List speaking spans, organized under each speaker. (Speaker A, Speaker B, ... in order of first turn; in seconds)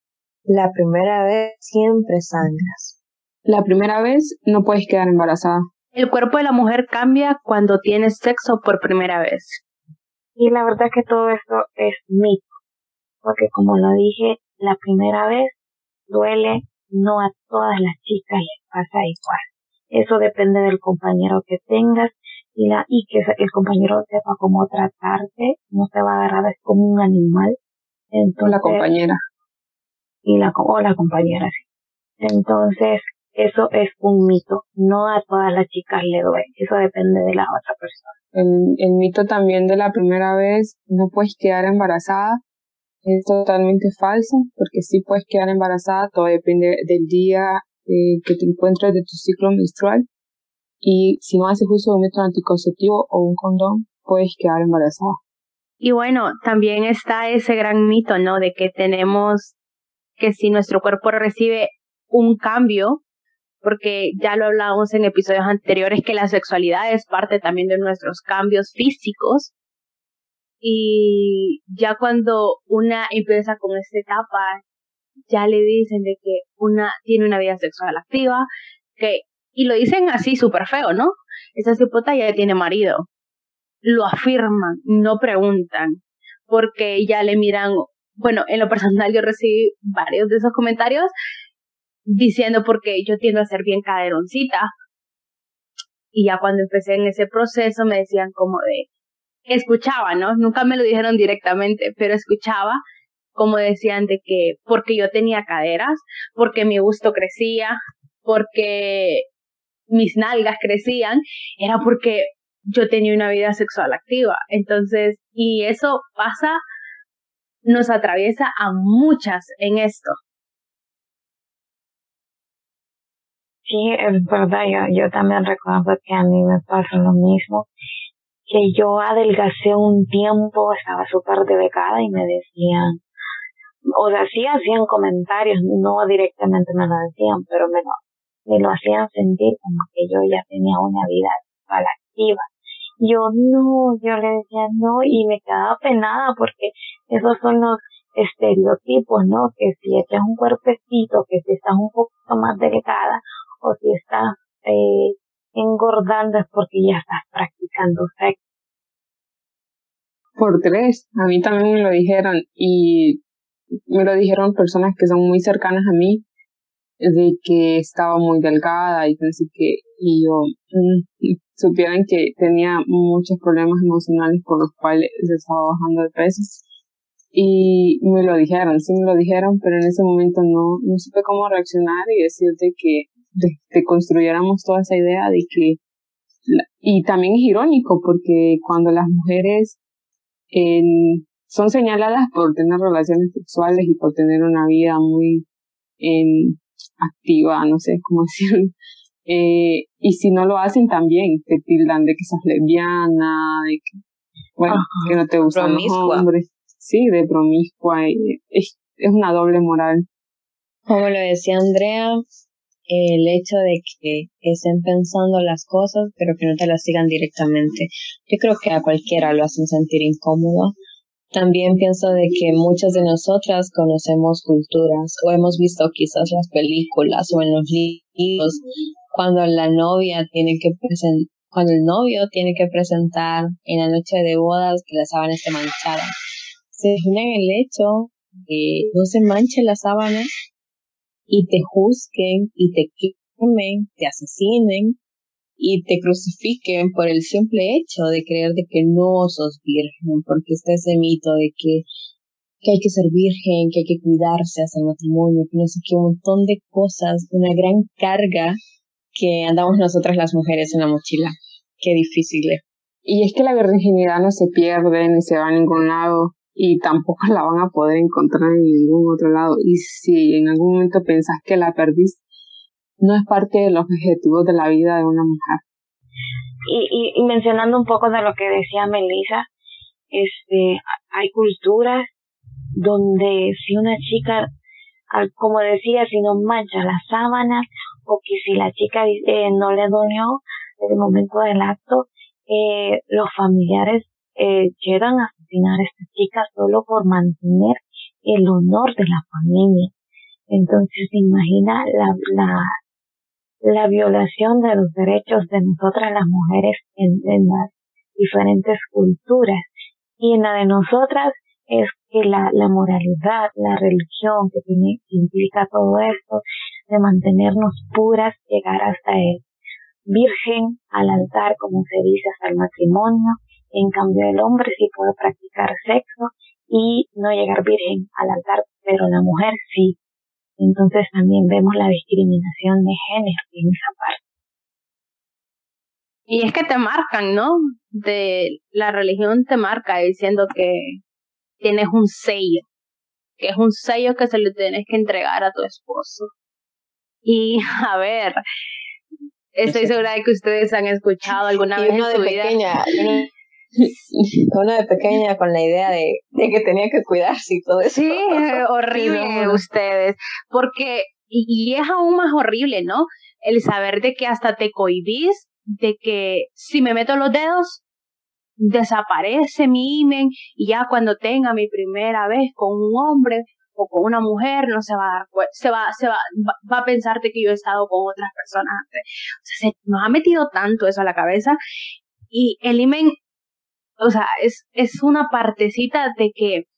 Speaker A: 0.5-2.9, 205.5-206.2, 210.9-212.2, 212.9-220.7, 221.3-228.6, 229.1-236.1, 236.7-240.3, 241.3-245.0, 245.6-251.8, 252.6-258.6, 259.1-262.6, 349.7-350.0, 351.8-353.3, 354.5-359.6
Speaker B: 3.5-5.6, 28.4-29.2, 38.3-42.4, 43.0-50.0, 50.8-55.2, 160.4-163.2, 163.9-166.2, 167.0-176.6, 177.3-185.8, 186.5-189.8, 190.5-195.4, 196.0-198.7, 199.2-204.0, 204.6-210.1, 263.1-272.2, 273.0-275.6, 353.8-354.4
Speaker C: 5.9-9.6, 55.8-59.5, 60.2-63.0, 63.6-69.5, 70.6-74.6, 75.3-78.5, 79.0-83.0, 83.8-86.0, 86.5-91.1, 92.0-94.7, 96.1-98.9, 99.5-102.8, 103.3-109.2, 109.9-116.6, 117.7-120.2, 336.3-341.0, 341.6-342.6, 343.4-346.3, 347.2-348.4, 349.6-352.6, 357.9-367.8, 368.6-381.6, 382.3-383.1, 384.0-386.6
Speaker D: 10.4-12.6, 13.2-15.6, 16.1-27.6, 28.1-28.9, 30.2-31.6, 32.2-38.1, 123.7-127.7, 128.5-133.0, 133.9-142.5, 143.0-158.4, 204.7-205.2, 276.7-279.5, 280.1-282.1, 282.8-284.5, 285.1-299.9, 300.5-302.7, 303.6-309.6, 310.2-319.4, 320.1-330.0, 330.6-334.2